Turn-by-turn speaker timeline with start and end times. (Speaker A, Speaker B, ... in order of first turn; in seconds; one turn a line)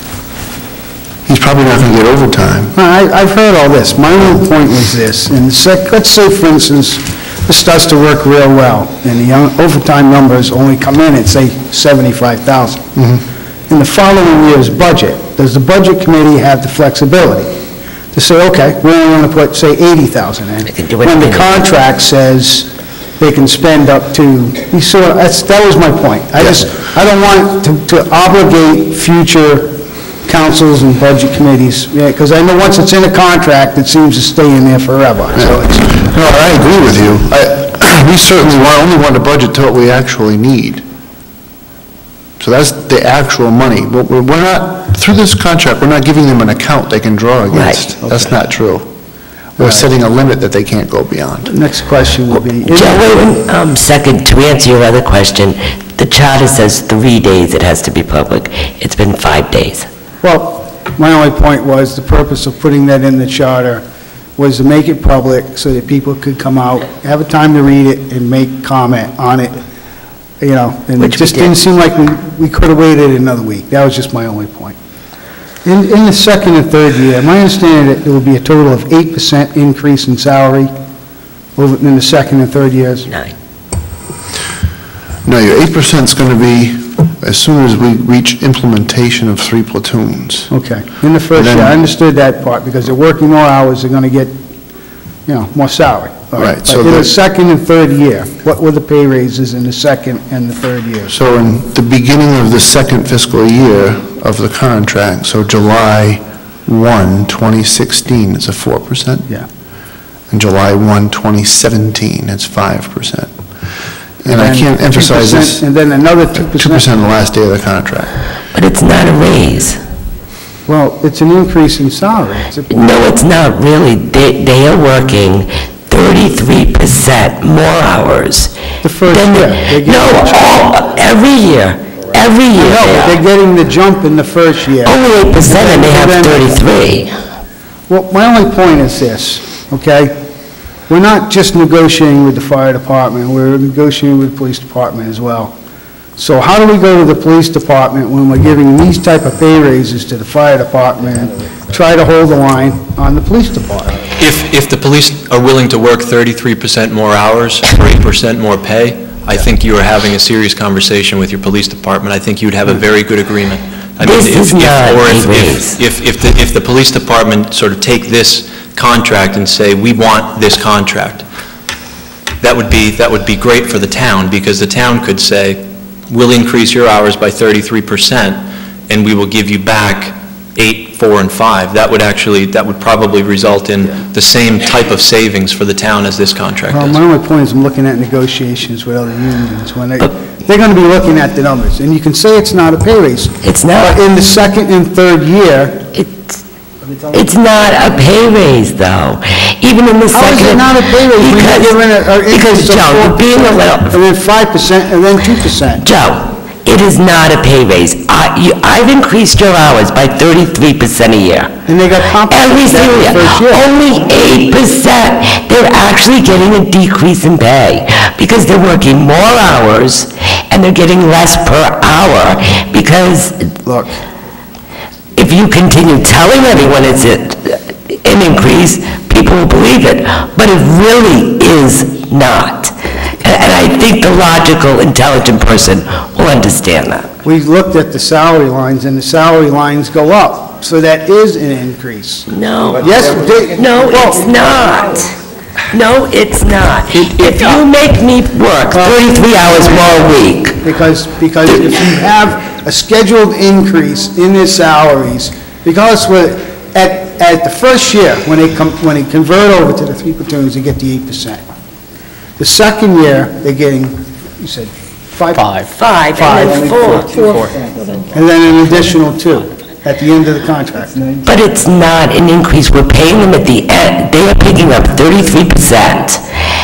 Speaker A: 1.2-2.7
Speaker B: 2.7-12.9
Speaker B: 13.7-17.5
Speaker B: 18.1-36.0
Speaker C: 20.7-21.6
Speaker A: 35.9-40.8
Speaker A: 42.4-48.9
Speaker C: 47.5-47.8
Speaker B: 48.0-48.3
Speaker A: 49.6-51.5
Speaker B: 49.6-49.8
Speaker B: 51.5-53.1
Speaker C: 52.6-59.9
Speaker B: 60.2-63.8
Speaker B: 64.4-69.6
Speaker B: 70.4-74.8
Speaker C: 71.0-71.6
Speaker B: 75.6-80.7
Speaker B: 81.5-83.1
Speaker A: 85.2-90.5
Speaker B: 90.5-94.3
Speaker A: 91.3-91.7
Speaker B: 95.2-101.2
Speaker A: 96.4-97.1
Speaker A: 101.1-109.3
Speaker A: 110.3-113.3
Speaker A: 114.2-115.6
Speaker B: 114.2-116.9
Speaker A: 116.3-118.1
Speaker C: 118.5-119.8
Speaker B: 120.7-123.0
Speaker C: 122.7-128.5
Speaker B: 128.8-130.7
Speaker C: 129.1-133.2
Speaker B: 132.5-136.4
Speaker C: 134.8-137.1
Speaker B: 137.9-140.1
Speaker B: 140.9-145.5
Speaker B: 146.2-154.0
Speaker D: 154.2-171.2
Speaker C: 164.0-165.8
Speaker D: 172.4-187.0
Speaker B: 186.7-195.9
Speaker C: 193.4-194.0
Speaker C: 195.9-196.4
Speaker C: 197.1-204.0
Speaker B: 200.1-205.8
Speaker C: 205.8-211.5
Speaker B: 211.7-213.7
Speaker C: 212.3-223.5
Speaker B: 223.6-224.0
Speaker C: 225.2-237.1
Speaker B: 237.2-244.4
Speaker C: 242.3-245.2
Speaker C: 245.7-250.6
Speaker B: 248.7-250.1
Speaker B: 250.6-261.4
Speaker B: 262.4-265.6
Speaker C: 265.6-267.5
Speaker B: 266.1-266.8
Speaker B: 268.1-271.1
Speaker C: 271.2-276.2